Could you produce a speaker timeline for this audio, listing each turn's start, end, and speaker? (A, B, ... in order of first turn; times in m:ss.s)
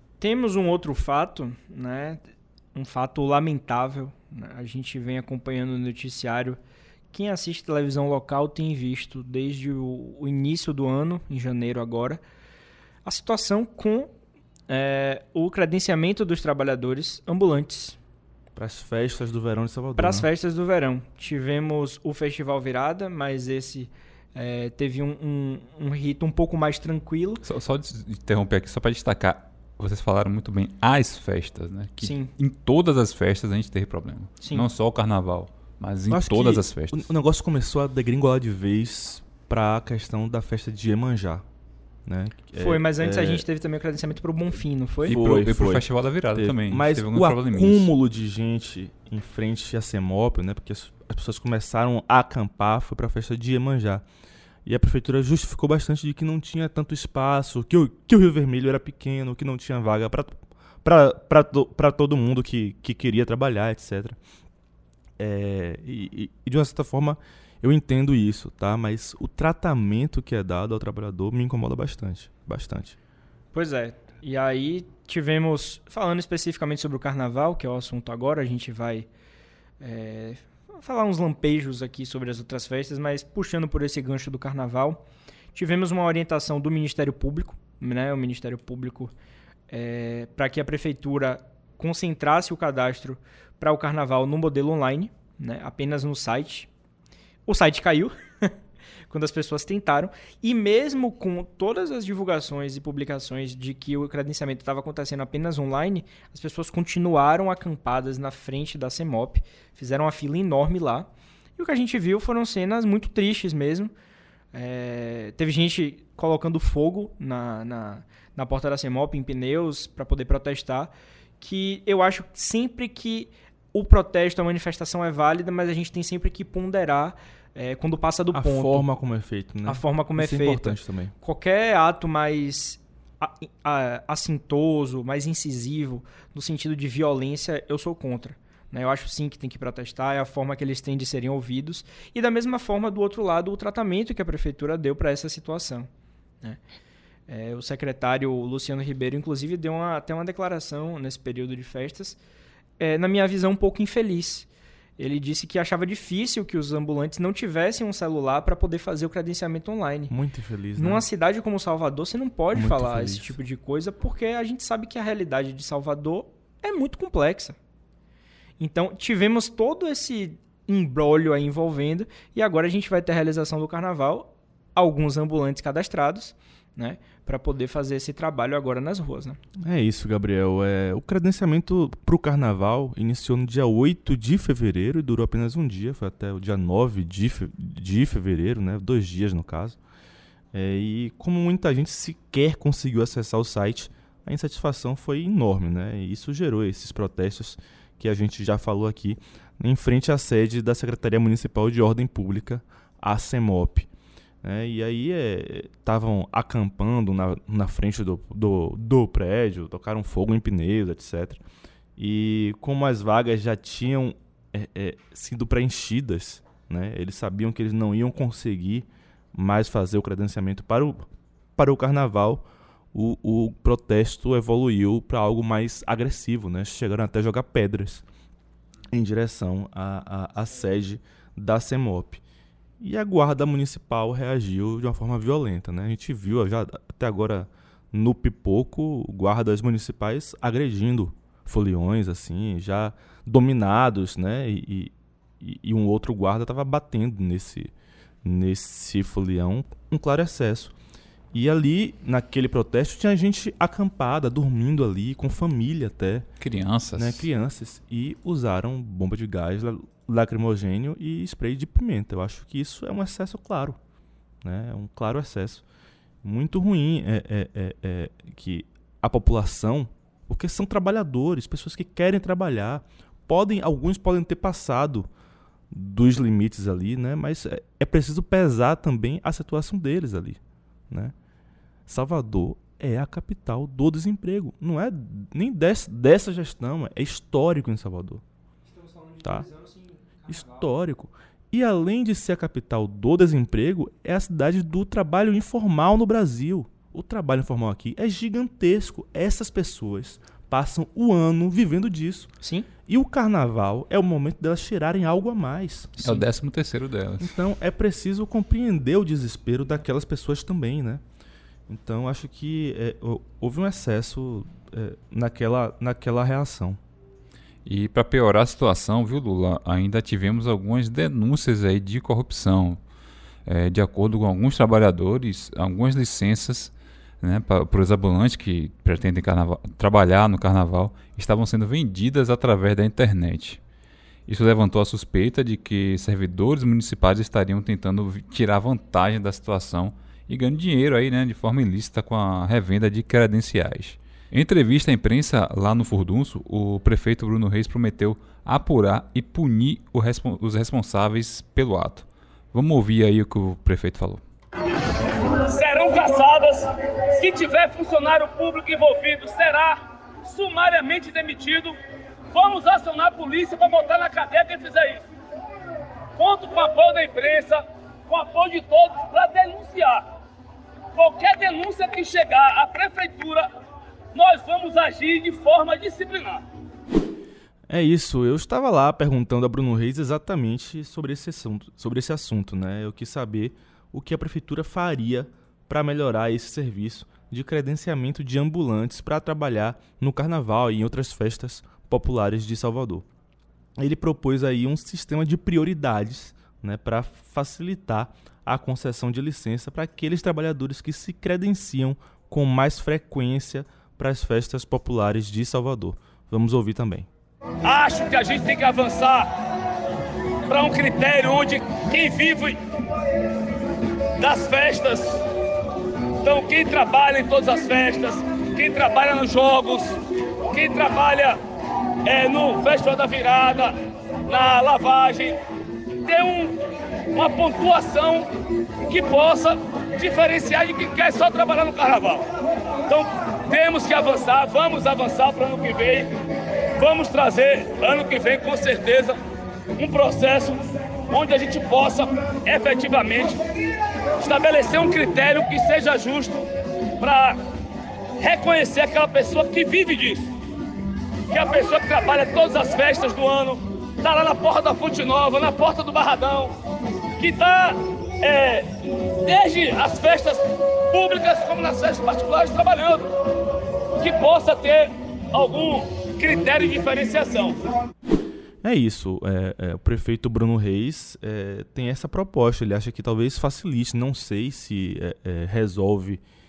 0:00.2-0:02.2 A
0:02.7-0:06.6 A
0:07.1-0:12.2 A
0:13.0-0:14.1 A
0:14.7-0:18.0 A
0:18.6-0:20.3 B
0:20.0-0:27.4 A
0:27.4-0:37.1 C
0:32.0-0:32.3 A
0:34.4-0:34.7 A
0:36.1-0:41.4 B
0:42.1-0:43.4 B
0:42.6-0:45.2 A
0:45.0-0:47.9 C
0:45.1-0:54.0 B
0:54.6-1:04.2 B
1:05.2-1:13.0 B
1:13.5-1:19.1 A
1:19.8-1:25.0 A
1:25.5-1:29.1 A
1:29.7-1:36.7 A
1:37.4-1:38.5 A
1:39.1-1:53.9 A
1:54.5-2:08.9 A
2:08.3-2:11.1 B
2:09.6-2:25.9 A
2:27.3-2:32.2 A
2:32.8-2:34.5 A
2:35.0-2:40.1 A
2:40.1-2:41.0 B
2:40.8-2:47.6 A
2:42.5-2:43.4 B
2:48.6-2:59.4 A
2:59.6-3:09.8 B
3:10.5-3:23.9 B
3:24.4-3:31.4 B
3:32.0-3:41.1 B
3:41.6-3:48.0 B
3:48.9-3:52.2 B
3:52.8-4:07.7 B
4:08.2-4:10.7 B
4:11.3-4:16.3 B
4:16.4-4:17.3 C
4:17.0-4:23.8 B
4:24.4-4:25.6 B
4:26.2-4:35.1 B
4:35.7-4:40.4 B
4:40.9-4:41.1 B
4:41.9-4:48.2 B
4:48.6-4:50.7 A
4:50.3-5:02.3 B
5:02.4-5:02.7 A
5:02.9-5:06.0 B
5:06.0-5:06.2 A
5:06.0-5:07.3 C
5:07.2-5:11.0 B
5:11.7-5:16.8 B
5:17.6-5:22.8 C
5:23.4-5:33.6 C
5:34.3-5:54.2 C
5:55.1-6:01.8 D
6:02.3-6:05.0 D
6:06.2-6:10.0 D
6:10.9-6:13.5 D
6:14.1-6:16.4 D
6:17.7-6:33.0 B
6:33.8-6:47.1 B
6:47.6-6:49.3 D
6:50.5-6:52.6 D
6:54.2-6:55.2 D
6:56.2-7:00.0 D
7:00.5-7:01.4 D
7:02.0-7:03.7 D
7:04.3-7:05.4 D
7:06.0-7:06.6 D
7:07.1-7:08.3 D
7:08.9-7:12.3 D
7:12.9-7:16.1 D
7:16.8-7:19.2 D
7:19.8-7:23.4 D
7:24.2-7:26.4 D
7:27.0-7:27.4 D
7:28.2-7:30.3 D
7:31.3-7:36.5 D
7:37.2-7:38.7 D
7:39.2-7:43.1 D
7:44.0-7:47.6 D
7:48.6-7:56.2 B